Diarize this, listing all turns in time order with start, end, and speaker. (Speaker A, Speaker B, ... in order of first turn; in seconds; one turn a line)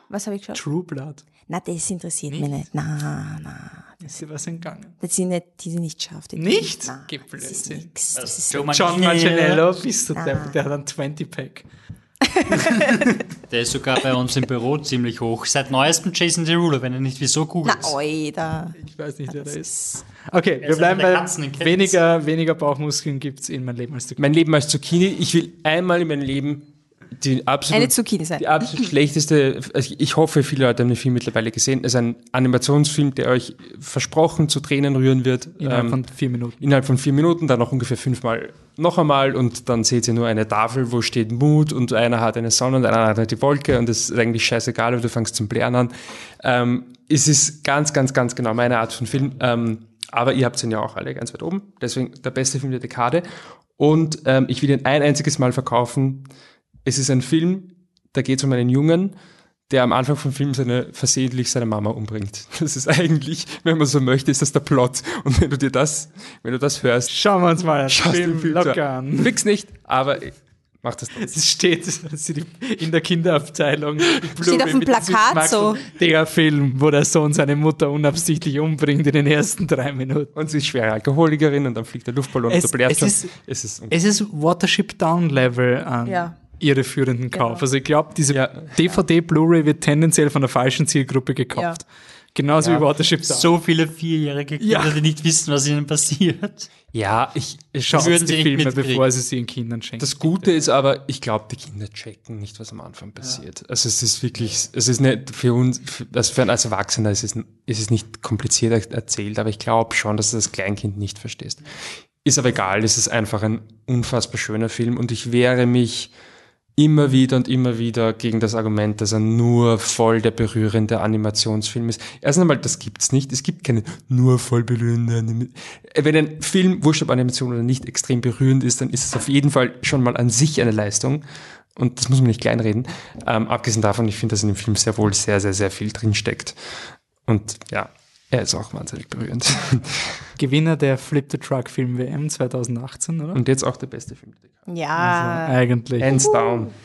Speaker A: 0.1-0.6
Speaker B: 0.6-1.2
Speaker A: 1.5-4.0
Speaker B: 2.3-2.5
Speaker B: 4.0-5.0
Speaker A: 5.0-8.7
Speaker B: 6.4-7.9
Speaker C: 8.1-9.6
Speaker B: 8.7-11.7
Speaker A: 10.2-10.6
Speaker A: 12.3-12.9
Speaker B: 12.5-13.2
Speaker C: 13.4-18.0
Speaker A: 17.6-18.8
Speaker B: 18.8-19.7
Speaker A: 19.3-20.0
Speaker B: 20.3-24.2
Speaker C: 20.6-22.0
Speaker D: 24.2-56.3
Speaker A: 27.7-28.9
Speaker B: 35.6-36.6
Speaker D: 56.9-59.2
Speaker D: 59.7-67.1
Speaker B: 67.1-69.3
Speaker D: 67.9-71.4
Speaker B: 71.2-80.3
Speaker A: 74.4-75.8
Speaker D: 80.3-84.0
Speaker B: 82.5-83.3
Speaker B: 83.9-93.5
Speaker A: 86.0-86.4
Speaker A: 87.3-87.6
Speaker D: 88.3-88.8
Speaker D: 92.6-92.8
Speaker C: 93.2-96.7
Speaker B: 94.6-95.0
Speaker D: 96.9-98.2
Speaker B: 97.8-100.2
Speaker C: 97.9-99.0
Speaker D: 100.0-116.1
Speaker D: 116.8-131.2
Speaker D: 131.8-140.2
Speaker B: 140.4-143.4
Speaker D: 143.3-144.5
Speaker A: 144.7-146.7
Speaker B: 145.0-146.2
Speaker D: 146.0-146.7